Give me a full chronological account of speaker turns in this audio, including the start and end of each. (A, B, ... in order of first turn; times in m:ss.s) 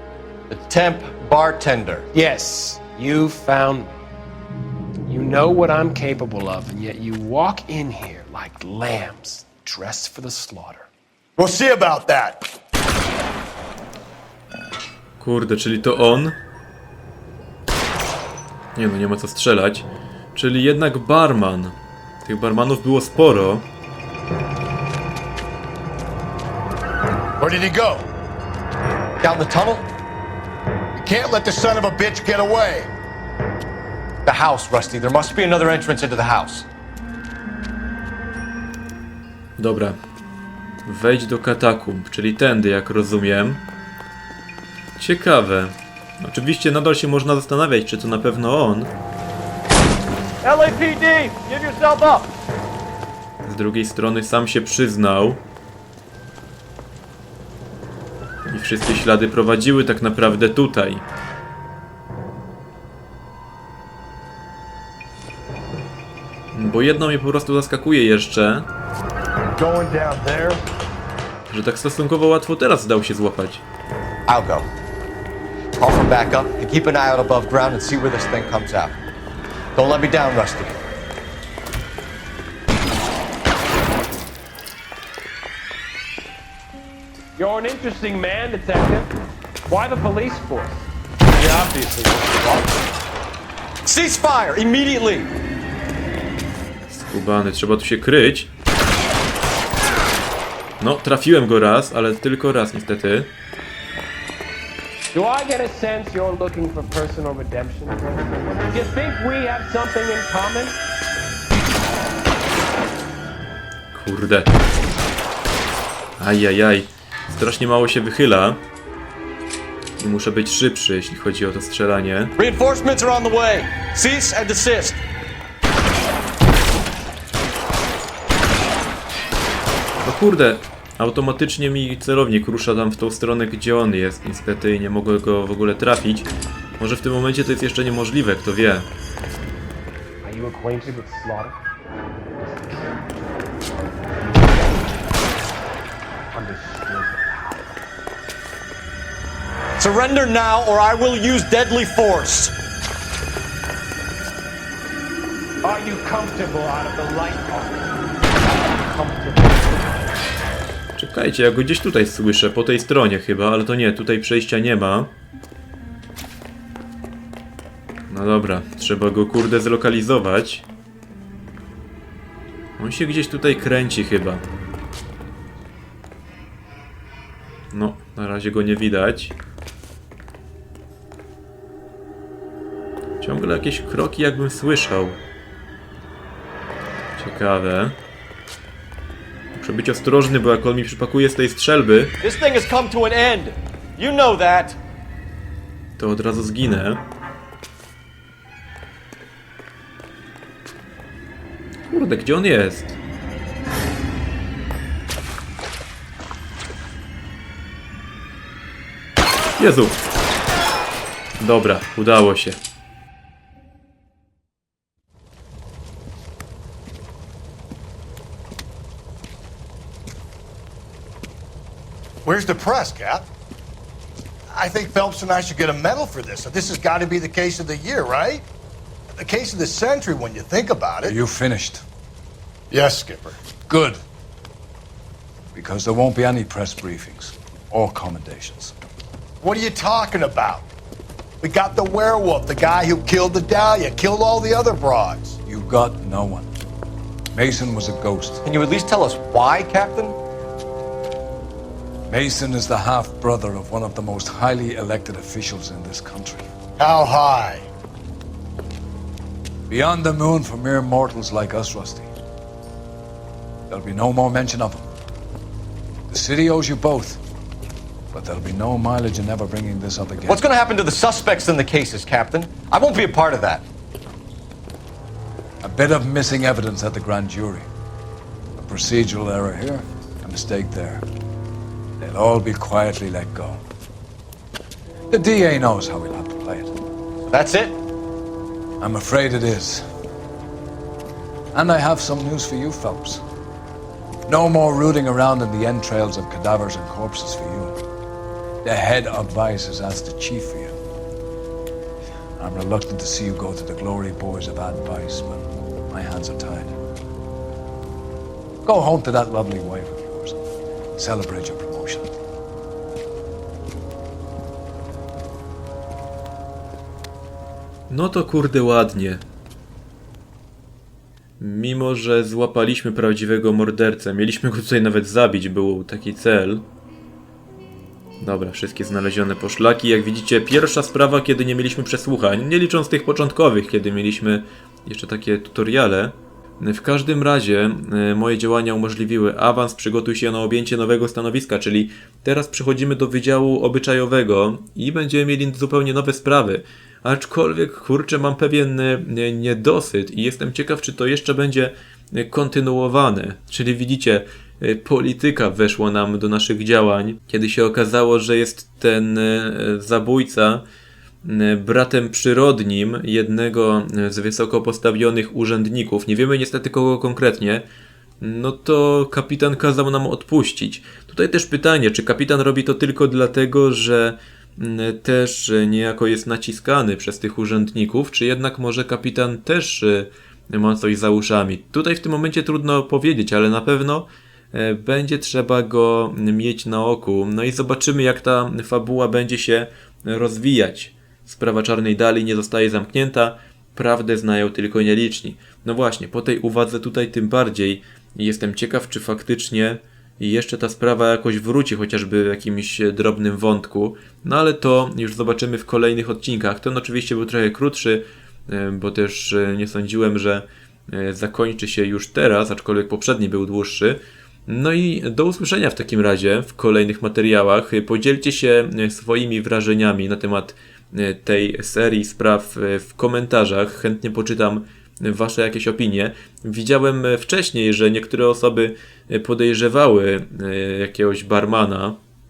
0:00.5-0:02.1 A
0:02.1-0:04.0 B
0:05.1-0:10.9 B
0:11.4-0:12.4 C
0:15.2-0:16.4 D
0:18.8-0:23.7 D
0:27.4-0:28.1 C
0:29.2-0:29.9 A
0:31.0-0:32.9 C
0:34.2-0:36.7 A
0:39.6-0:40.0 D
0:40.9-0:43.6 D
0:45.0-0:48.9 D
0:50.4-0:52.3 A
0:53.4-0:55.4 D
0:58.5-1:01.0 D
1:06.5-1:08.7 D
1:09.6-1:10.6 C
1:11.5-1:13.6 D
1:14.3-1:14.7 A
1:15.8-1:19.0 A
1:19.8-1:20.9 A
1:27.4-1:29.1 B
1:29.7-1:30.9 B
1:31.5-1:32.6 B
1:33.8-1:35.3 A
1:36.9-1:38.5 D
1:40.8-1:43.3 D
1:45.1-1:50.8 B
1:53.9-1:54.6 D
1:56.2-1:58.6 D
2:00.0-2:02.4 D
2:02.4-2:05.0 A
2:10.0-2:18.9 D
2:20.2-2:21.6 B
2:22.4-2:25.0 B
2:26.3-2:27.8 B
2:29.8-2:32.6 A
2:35.6-2:40.2 B
2:41.0-2:45.1 D
2:48.1-2:50.7 D
2:52.8-2:54.4 D
2:57.7-2:59.4 D
3:03.2-3:05.2 D
3:07.2-3:08.0 D
3:09.6-3:12.1 D
3:12.2-3:14.8 A
3:16.0-3:17.0 D
3:21.9-3:23.0 D
3:29.6-3:30.0 D
3:31.4-3:32.6 D
3:42.2-3:43.3 C
3:44.6-3:48.4 C
3:49.2-3:51.2 C
3:51.0-3:51.8 E
3:52.7-3:53.4 C
3:53.7-3:54.0 E
3:55.5-3:58.7 E
3:59.4-4:00.7 C
4:01.4-4:05.4 C
4:05.5-4:06.5 E
4:07.3-4:08.4 E
4:08.4-4:10.2 A
4:12.1-4:16.5 E
4:16.8-4:17.7 C
4:19.7-4:22.1 E
4:23.7-4:24.8 E
4:26.1-4:27.2 E
4:28.1-4:30.4 E
4:30.3-4:33.7 A
4:35.6-4:37.7 E
4:38.6-4:41.0 E
4:42.0-4:43.6 E
4:45.1-4:46.7 E
4:47.3-4:47.8 A
4:48.8-4:49.8 E
4:51.5-4:53.2 E
4:54.3-4:57.8 E
4:58.6-5:00.8 E
5:02.4-5:06.8 E
5:08.6-5:10.4 E
5:11.0-5:12.1 E
5:17.9-5:19.2 D
5:21.4-5:26.6 D
5:28.2-6:00.6 D
6:01.2-6:07.6 D
6:08.2-7:12.0 D